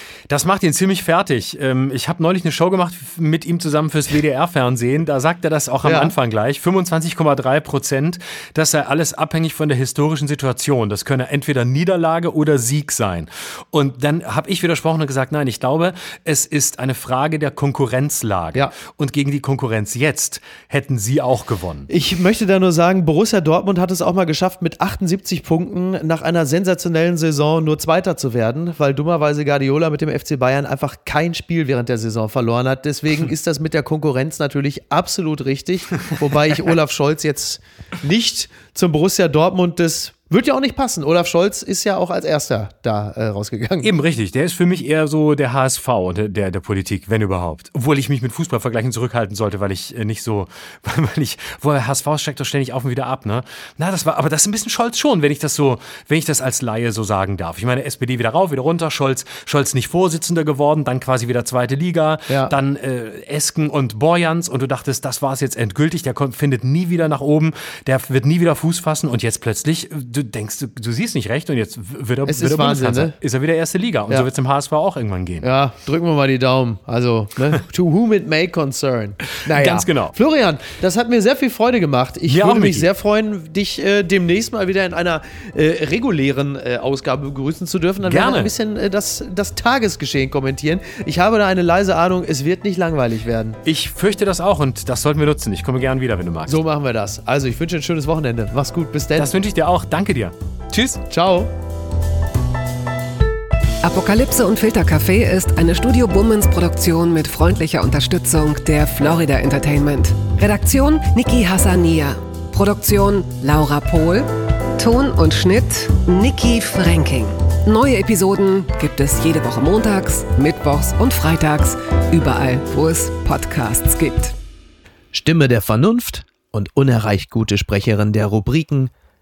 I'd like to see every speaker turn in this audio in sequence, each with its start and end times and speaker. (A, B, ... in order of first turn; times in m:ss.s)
0:00.3-0:21.9 A
0:05.8-0:06.1 B
0:21.9-0:43.9 B
0:43.8-1:15.5 A
1:02.3-1:02.5 B
1:12.2-1:13.2 B
1:15.4-1:33.6 B
1:19.4-1:20.2 A
1:22.3-1:22.9 A
1:28.0-1:28.5 A
1:33.6-1:36.6 A
1:36.5-1:39.3 B
1:39.2-1:41.0 A
1:41.1-1:41.5 B
1:43.8-2:04.3 C
2:05.1-2:08.9 B